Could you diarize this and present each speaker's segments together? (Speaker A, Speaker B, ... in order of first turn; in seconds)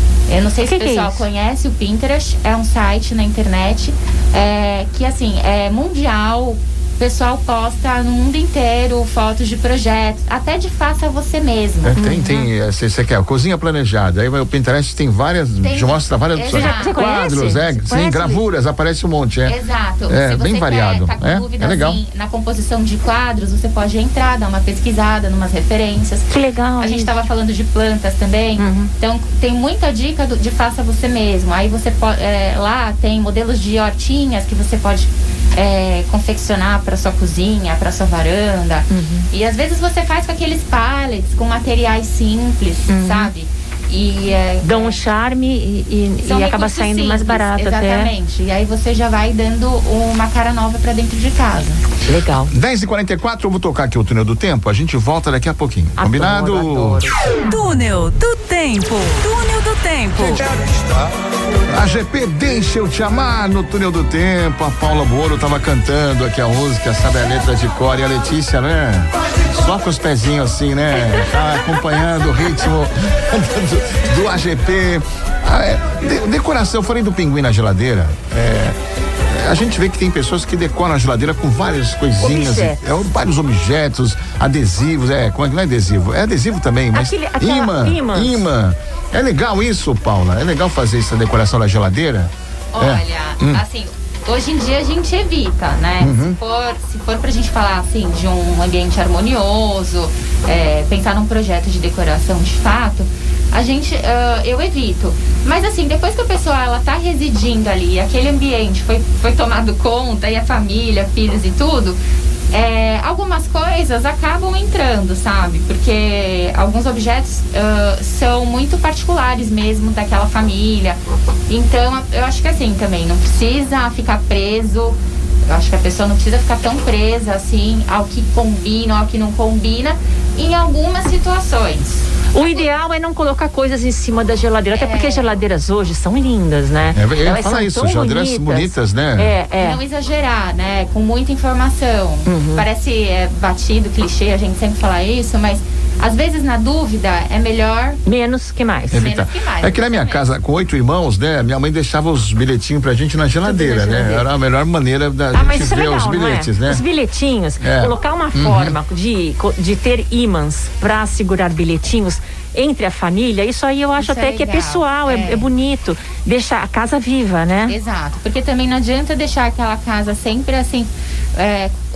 Speaker A: 0.3-12.0, 15.6-17.0, 19.5-45.0, 46.2-51.8, 92.7-112.0, 112.5-132.7, 134.7-135.3, 139.6-148.0, 148.9-150.3, 164.0-165.5, 167.7-171.8
Speaker B: 0.7-1.3, 12.0-12.5, 16.5-18.4, 26.3-27.1, 28.6-28.9, 38.9-39.3, 42.9-43.3, 44.6-48.1, 52.0-52.5, 56.0-57.2, 82.2-82.8, 86.9-88.4, 132.3-139.8, 142.3-142.7, 148.1-149.0, 153.4-154.2, 155.3-167.8
Speaker C: 11.9-19.6, 20.1-22.0, 52.5-57.0, 61.7-78.8, 79.3-93.6, 96.0-96.4, 136.9-139.3, 148.9-156.8, 157.6-158.8
Speaker D: 57.4-60.5